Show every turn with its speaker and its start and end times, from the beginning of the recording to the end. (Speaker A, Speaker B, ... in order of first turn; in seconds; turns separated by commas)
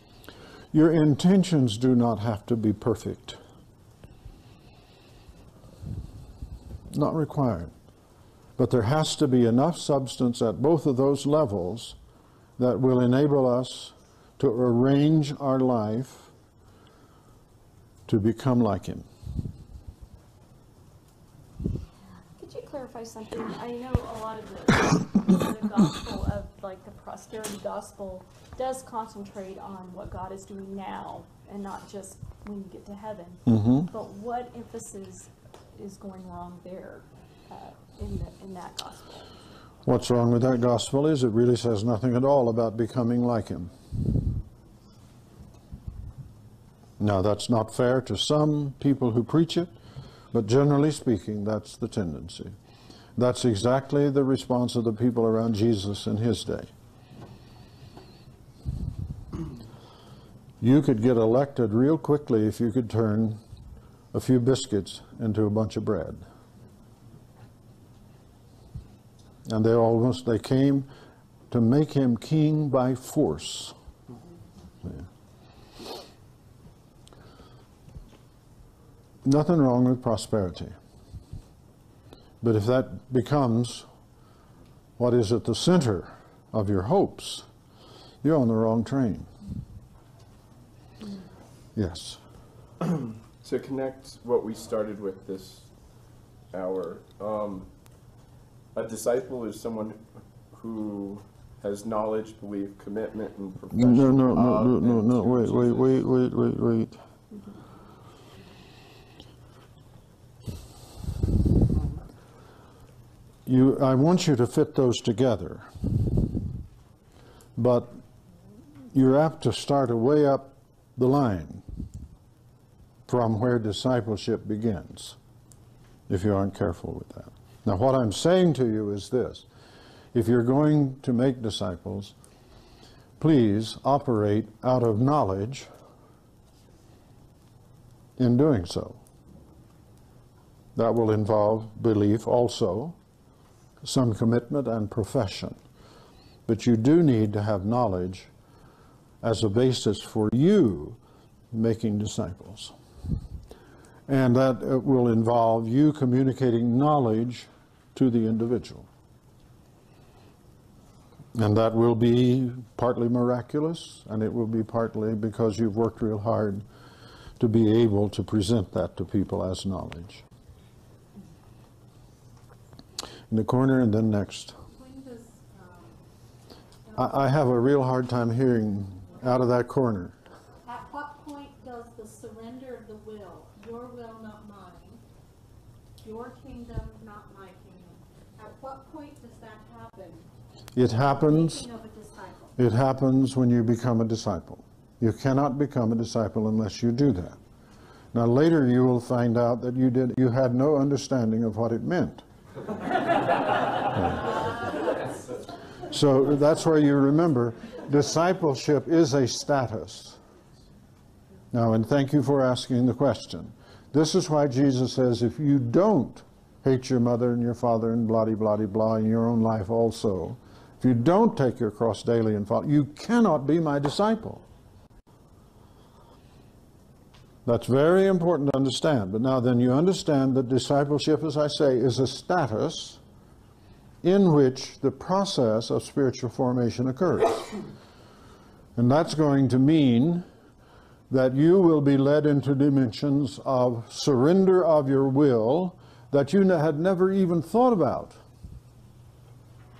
Speaker A: 0.7-3.4, Speaker A: 6.9-7.7, Speaker A: 8.6-12.0, Speaker A: 12.6-16.3, Speaker A: 18.1-19.1, Speaker B: 22.4-39.2, Speaker A: 33.5-33.9, Speaker A: 39.9-43.7, Speaker A: 47.0-49.7, Speaker A: 50.3-52.5, Speaker A: 53.2-56.7, Speaker A: 60.6-63.4, Speaker A: 64.1-66.2, Speaker A: 69.5-70.9, Speaker A: 71.5-73.8, Speaker A: 79.2-80.8, Speaker A: 82.4-83.9, Speaker A: 85.0-87.5, Speaker A: 88.2-89.3, Speaker A: 91.8-92.2, Speaker C: 92.9-95.7, Speaker C: 96.5-97.7, Speaker C: 98.7-105.9, Speaker A: 103.7-107.0, Speaker A: 113.5-116.3, Speaker A: 117.6-118.0, Speaker A: 118.9-121.6, Speaker A: 123.1-125.2, Speaker A: 126.1-129.5, Speaker A: 130.1-132.2, Speaker A: 133.2-135.7, Speaker A: 138.2-139.0, Speaker A: 140.8-143.0, Speaker A: 143.8-145.6, Speaker A: 146.5-148.3, Speaker A: 149.2-151.0, Speaker A: 151.5-152.7, Speaker A: 154.1-158.9, Speaker A: 161.3-166.6, Speaker A: 167.4-170.2, Speaker A: 173.3-174.6, Speaker D: 174.7-176.0, Speaker A: 177.0-180.2, Speaker D: 180.6-185.0, Speaker D: 186.0-190.3, Speaker A: 190.8-191.7, Speaker D: 191.1-192.5, Speaker A: 192.6-197.4, Speaker A: 198.1-202.2, Speaker A: 203.9-204.3, Speaker A: 205.9-210.2, Speaker A: 211.5-224.4, Speaker A: 227.4-233.0, Speaker A: 234.0-237.6, Speaker A: 238.8-240.2, Speaker A: 241.1-248.2